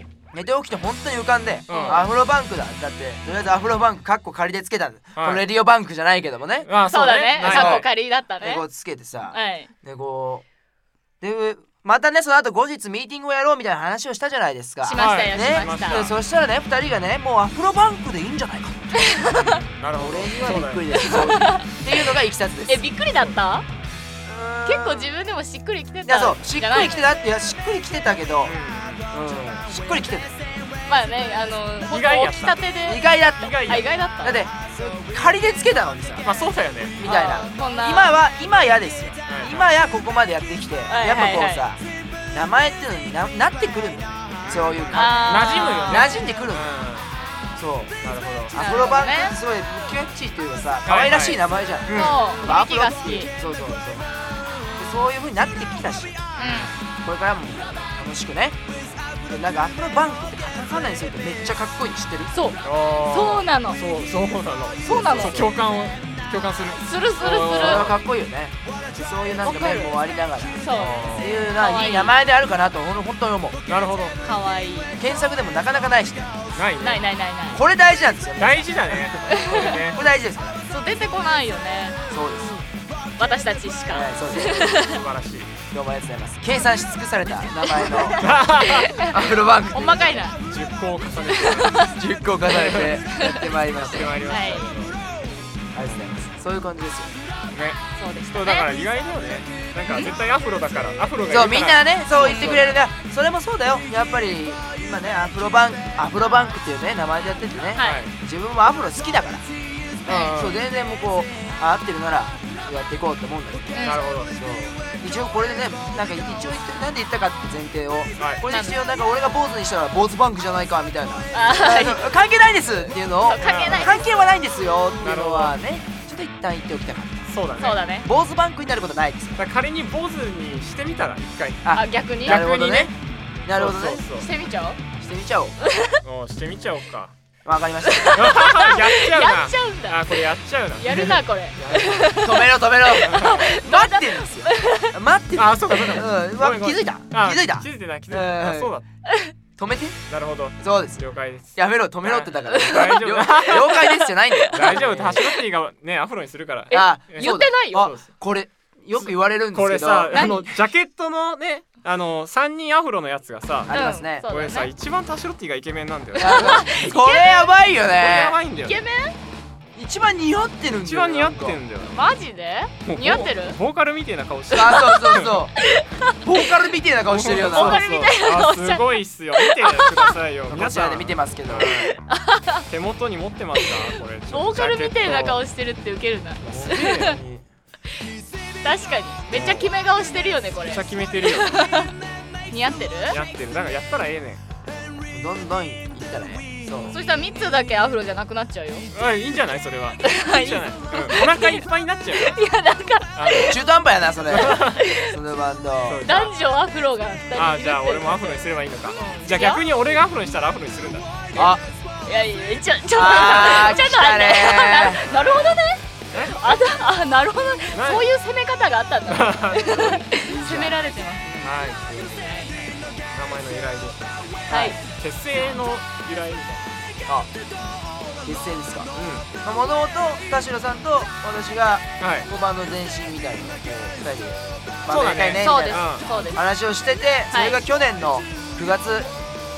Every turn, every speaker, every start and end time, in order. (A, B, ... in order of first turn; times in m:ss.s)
0:00.3-0:06.7 A
0:01.7-0:02.0 B
0:01.7-0:02.1 C
0:05.2-0:05.4 C
0:06.6-0:07.8 C
0:06.9-0:08.6 B
0:07.4-0:07.9 A
0:08.4-0:10.4 A
0:09.3-0:09.7 B
0:11.2-0:19.1 A
0:14.8-0:16.0 B
0:14.9-0:16.2 C
0:18.9-0:19.6 B
0:19.3-0:21.3 C
0:19.9-0:22.9 A
0:20.9-0:21.8 B
0:22.7-0:23.6 B
0:24.2-0:25.1 A
0:24.6-0:27.1 B
0:26.0-0:28.5 A
0:28.4-0:29.1 C
0:29.1-0:30.3 A
0:30.9-0:33.0 B
0:31.9-0:32.6 C
0:32.8-0:33.6 A
0:33.4-0:33.9 C
0:33.6-0:34.4 B
0:34.2-0:36.3 A
0:36.2-0:37.0 C
0:37.0-0:41.8 A
0:37.0-0:38.2 B
0:39.3-0:39.7 C
0:40.9-0:41.6 B
0:42.3-0:46.7 A
0:44.4-0:47.1 C
0:44.9-0:46.1 B
0:47.6-0:47.9 A
0:48.0-0:48.5 C
0:48.5-0:54.1 A
0:48.6-0:49.4 B
0:50.8-0:52.2 C
0:51.9-0:53.3 B
0:54.8-0:56.2 A
0:56.4-0:56.7 B
0:56.4-0:56.7 C
0:57.0-0:58.6 A
0:59.2-1:02.3 A
1:02.3-1:03.8 B
1:02.6-1:08.0 C
1:04.8-1:05.5 B
1:05.1-1:05.5 A
1:06.8-1:07.8 B
1:07.5-1:13.7 A
1:09.4-1:10.0 B
1:10.6-1:12.1 B
1:10.7-1:11.5 C
1:13.7-1:14.2 C
1:14.2-1:15.0 B
1:15.0-1:16.3 A
1:16.5-1:17.0 C
1:16.8-1:17.6 B
1:17.5-1:20.6 A
1:18.4-1:20.0 C
1:19.2-1:19.8 B
1:20.7-1:22.0 B
1:22.1-1:22.6 A
1:23.2-1:25.0 B
1:23.9-1:24.7 A
1:24.6-1:25.5 C
1:25.7-1:28.3 A
1:27.7-1:29.1 B
1:28.1-1:29.0 C
1:29.0-1:30.2 A
1:29.7-1:30.4 B
1:30.5-1:31.9 C
1:31.3-1:31.9 B
1:32.0-1:34.2 A
1:32.5-1:33.0 C
1:33.0-1:33.4 B
1:33.6-1:35.0 C
1:34.2-1:34.6 B
1:35.7-1:37.1 A
1:37.5-1:37.8 C
1:38.0-1:38.7 B
1:38.3-1:42.8 C
1:41.3-1:49.4 A
1:42.1-1:42.7 B
1:47.7-1:48.0 B
1:47.8-1:48.1 C
1:50.0-1:50.3 B
1:50.1-2:07.3 A
1:50.1-1:50.6 C
1:53.7-1:54.1 B
1:53.8-1:54.3 C
1:58.5-1:58.8 B
2:01.3-2:02.0 B
2:03.2-2:04.0 B
2:03.4-2:03.9 C
2:05.0-2:05.6 C
2:07.3-2:07.8 C
2:07.6-2:08.1 B
2:08.0-2:09.4 A
2:09.4-2:11.7 C
2:11.6-2:12.9 A
2:11.7-2:12.4 B
2:12.2-2:12.9 C
2:13.4-2:14.0 A
2:13.4-2:14.3 C
2:14.1-2:14.8 B
2:15.0-2:15.6 A
2:15.6-2:16.0 B
2:16.0-2:17.1 C
2:17.4-2:18.3 A
2:17.8-2:20.2 B
2:18.1-2:22.2 C
2:20.8-2:24.9 B
2:22.2-2:28.7 A
2:23.0-2:23.5 C
2:25.4-2:28.8 C
2:29.1-2:29.3 B
2:29.6-2:30.0 A
2:30.1-2:38.0 C
2:30.6-2:31.0 A
2:31.5-2:35.2 A
2:32.5-2:34.8 B
2:36.7-2:37.9 B
2:36.7-2:40.2 A
2:39.0-2:46.7 C
2:40.1-2:40.5 B
2:43.7-2:44.2 A
2:43.7-2:44.7 B
2:46.2-2:48.4 A
2:46.2-2:47.5 B
2:47.9-2:48.8 C
2:48.6-2:49.2 B
2:49.7-2:51.6 A
2:50.8-2:52.0 C
2:51.9-2:53.6 B
2:52.8-2:55.4 C
2:54.5-2:55.5 A
2:54.5-2:56.2 B
2:56.2-2:57.8 A
2:57.1-3:02.0 C
2:57.3-3:00.1 B
3:00.5-3:01.8 A
3:01.6-3:02.6 B
3:02.7-3:05.4 C
3:04.3-3:07.2 B
3:06.4-3:07.4 A
3:06.5-3:07.2 C
3:08.6-3:11.9 B
3:09.3-3:09.7 C
3:10.7-3:11.5 C
3:12.5-3:13.2 B
3:13.1-3:14.4 C
3:15.1-3:17.0 A
3:16.9-3:18.9 B
3:18.9-3:22.4 C
3:20.0-3:23.6 B
3:23.2-3:23.6 C
3:23.4-3:26.0 A
3:24.3-3:24.8 C
3:24.4-3:25.1 B
3:25.8-3:26.3 C
3:26.0-3:28.4 B
3:27.3-3:31.5 C
3:29.0-3:29.6 B
3:31.3-3:31.6 A
3:32.0-3:41.3 B
3:32.9-3:35.0 A
3:35.0-3:36.6 C
3:37.7-3:38.1 C
3:39.1-3:40.1 C
3:40.2-3:41.5 A
3:41.4-3:42.4 C
3:42.2-3:42.7 B
3:42.9-3:46.8 C
3:44.5-3:44.8 A
3:44.5-3:44.8 B
3:48.2-3:48.9 A
3:48.9-3:49.3 C
3:49.4-3:59.1 A
3:52.0-3:52.3 C
3:54.9-3:56.1 C
3:55.4-3:56.4 B
3:57.3-3:57.6 B